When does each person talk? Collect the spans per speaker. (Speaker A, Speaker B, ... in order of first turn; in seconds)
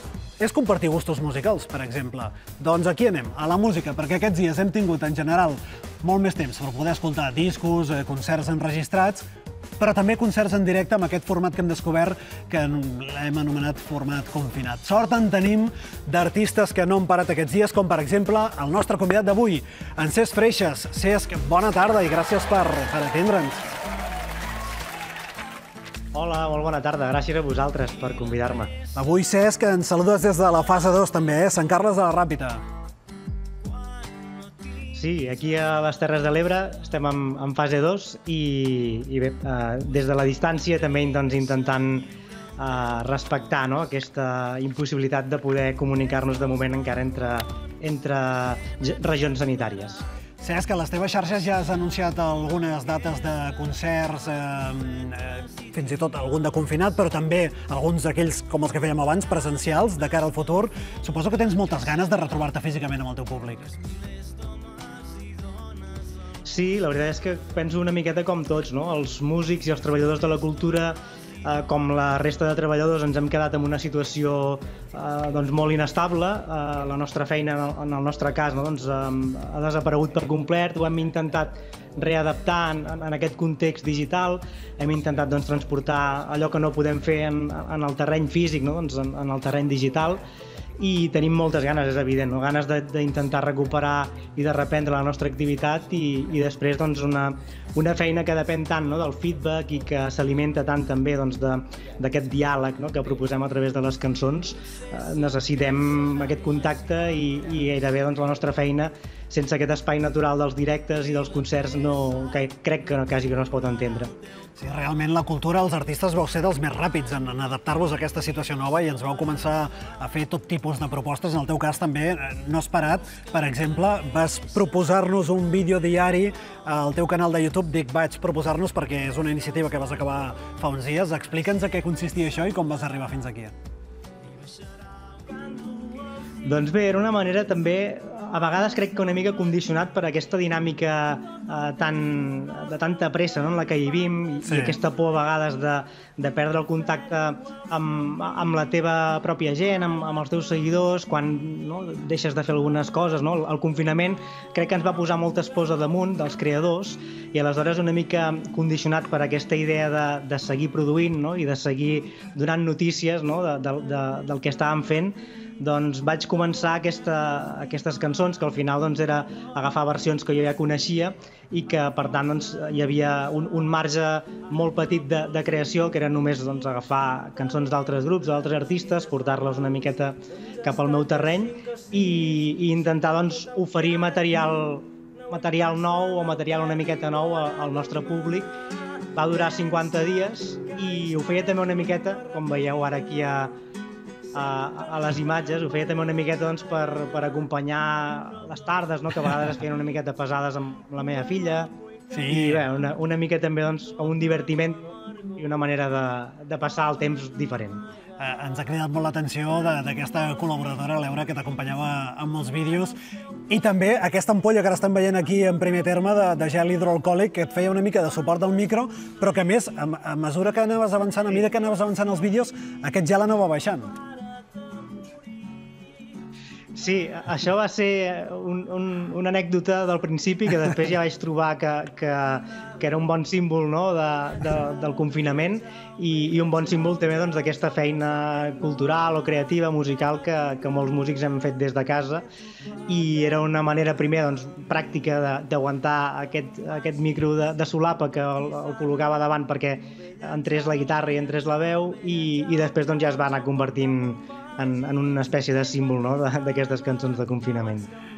Speaker A: 0.4-9.2, 9.8-23.7, 28.9-32.6, 50.4-63.7, 114.6-133.5, 144.4-144.8, 202.1-202.6, 208.2-213.0, 213.5-223.9
Speaker B: 26.1-28.7, 34.9-50.0, 66.4-90.2, 90.8-114.1, 136.4-188.5, 189.1-193.5, 194.3-201.7, 202.3-207.8, 226.8-242.2, 242.9-257.9